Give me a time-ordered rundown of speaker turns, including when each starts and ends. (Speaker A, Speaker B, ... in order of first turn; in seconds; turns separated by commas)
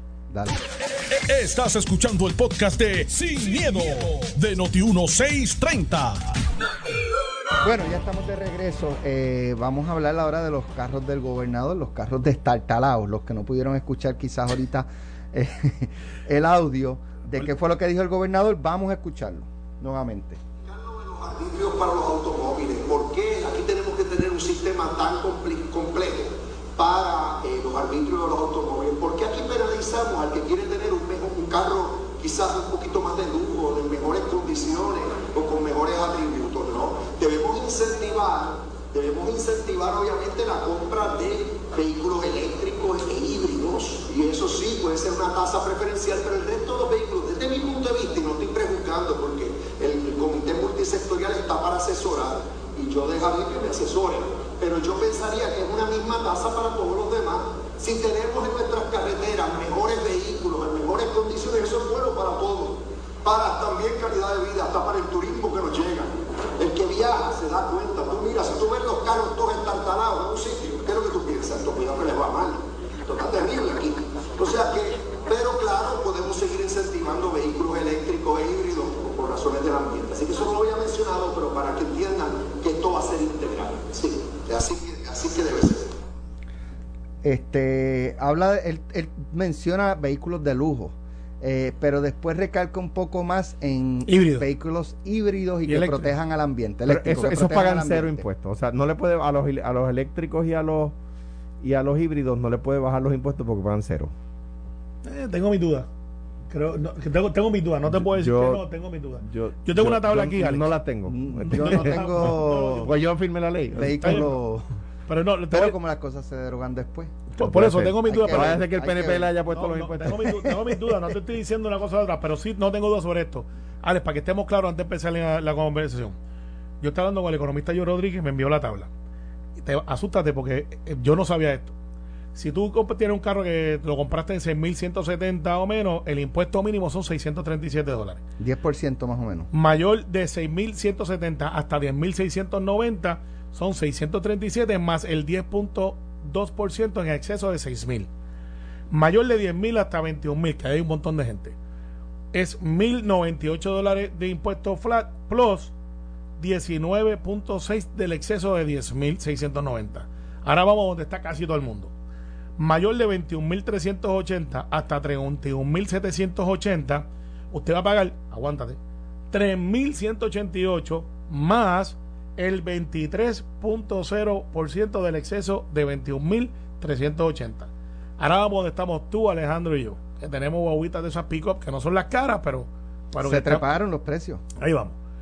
Speaker A: 0.3-0.6, Speaker B: 1.1-6.2, Speaker A: 7.6-20.4, Speaker C: 20.7-85.9, Speaker A: 87.2-98.2, Speaker D: 94.1-94.5, Speaker D: 95.7-96.1, Speaker E: 96.9-100.9, Speaker E: 101.6-104.1, Speaker D: 105.0-105.9, Speaker D: 106.5-110.7, Speaker E: 107.9-108.6, Speaker E: 109.2-114.3, Speaker A: 111.1-112.9, Speaker D: 111.5-112.9, Speaker A: 113.8-114.7, Speaker D: 114.0-114.3, Speaker D: 115.1-115.8, Speaker A: 115.5-117.3, Speaker D: 117.3-118.7, Speaker E: 117.4-120.3, Speaker A: 118.0-119.3, Speaker D: 119.5-126.2, Speaker A: 120.2-120.7, Speaker D: 126.8-128.9, Speaker D: 129.6-131.7, Speaker D: 132.3-138.2, Speaker A: 138.4-139.5, Speaker D: 139.5-148.1, Speaker D: 148.9-151.6, Speaker D: 152.3-155.7, Speaker D: 156.4-161.9, Speaker D: 162.6-168.8, Speaker D: 169.3-183.7, Speaker A: 183.2-184.4, Speaker D: 184.6-184.9